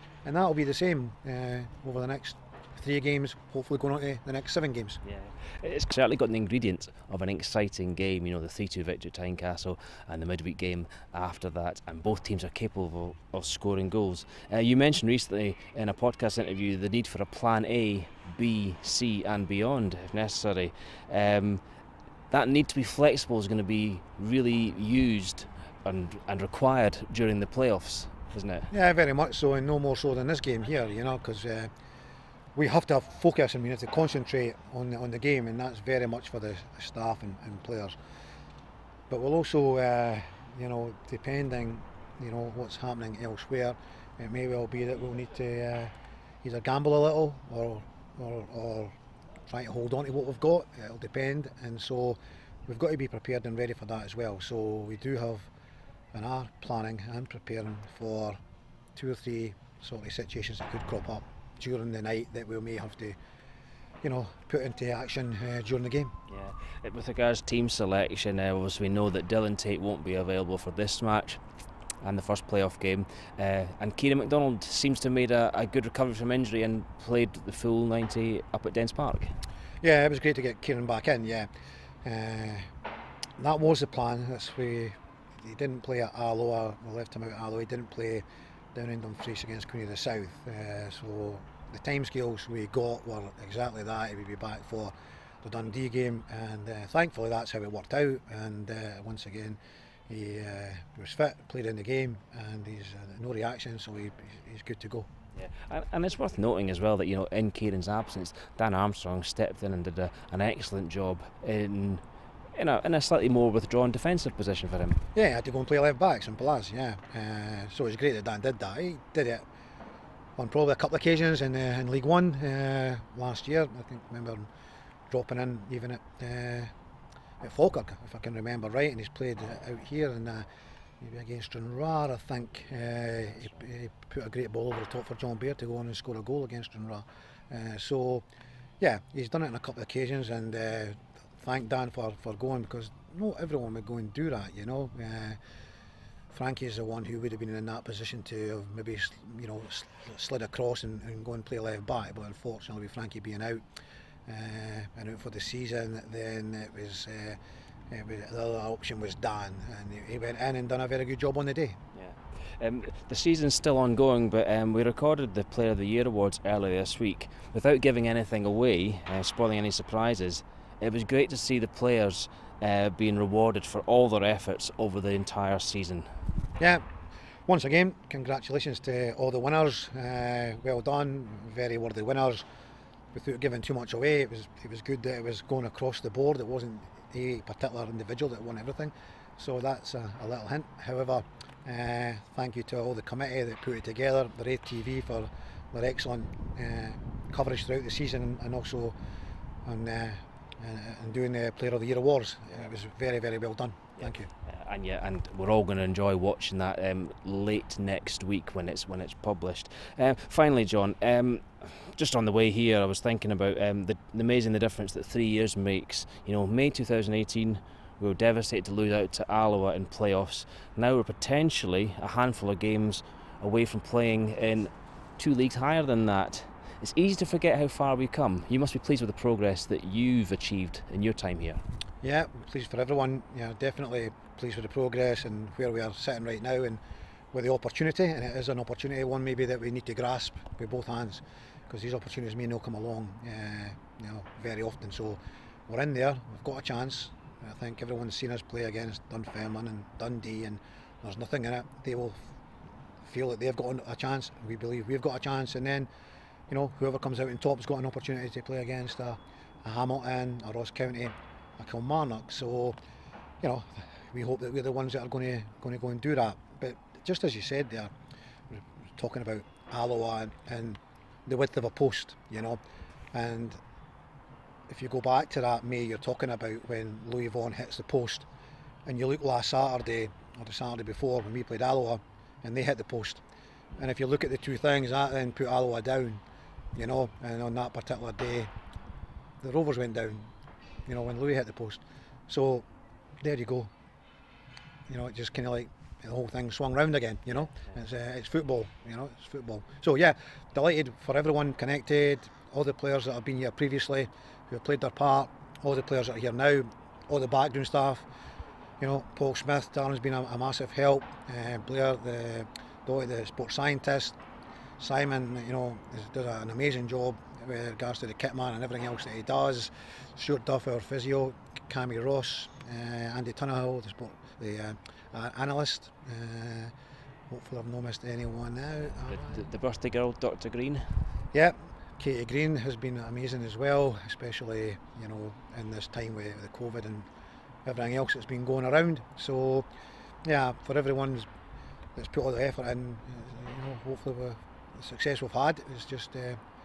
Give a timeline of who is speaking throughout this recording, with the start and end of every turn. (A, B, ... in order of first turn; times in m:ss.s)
0:00.2-0:05.0 A
0:05.1-0:21.6 B
0:22.3-0:28.7 B
0:28.7-0:31.7 A
0:32.6-0:38.0 A
0:39.1-0:45.9 A
0:46.4-0:48.9 A
0:49.5-0:55.5 A
0:56.1-0:58.4 A
0:59.0-1:03.2 A
1:04.0-1:06.1 A
1:06.3-1:11.4 B
1:12.0-1:19.4 B
1:19.8-1:21.5 A
1:22.0-1:22.6 A
1:23.4-1:39.6 A
1:40.1-1:45.1 A
1:45.4-1:52.0 B
1:52.6-1:55.0 B
1:55.1-1:59.4 A
2:00.4-2:04.5 A
2:05.1-2:06.7 A
2:07.4-2:10.5 A
2:11.0-2:18.2 A
2:18.8-2:25.4 A
2:26.3-2:33.6 A
2:34.3-2:37.4 A
2:37.9-2:41.8 A
2:41.9-2:56.1 B
2:56.6-2:56.8 A
2:57.5-3:02.4 A
3:03.1-3:19.0 A
3:19.6-3:24.3 A
3:24.0-3:51.6 B
3:52.0-3:56.8 A
3:57.3-4:12.2 A
4:13.0-4:15.9 A
4:16.5-4:22.8 A
4:23.4-4:27.9 A
4:28.5-4:32.6 A
4:33.1-4:33.6 A
4:34.7-4:38.3 A
4:38.9-4:43.2 A
4:43.8-4:46.2 A
4:46.8-4:48.5 A
4:49.4-4:50.3 A
4:50.9-4:52.6 A
4:53.2-4:53.7 A
4:54.9-5:08.0 A
5:08.8-5:14.2 A
5:14.8-5:26.7 A
5:27.3-5:29.3 A
5:28.9-5:30.8 B
5:31.3-5:37.1 A
5:37.6-5:39.7 A
5:40.2-5:41.3 A
5:42.0-5:46.4 A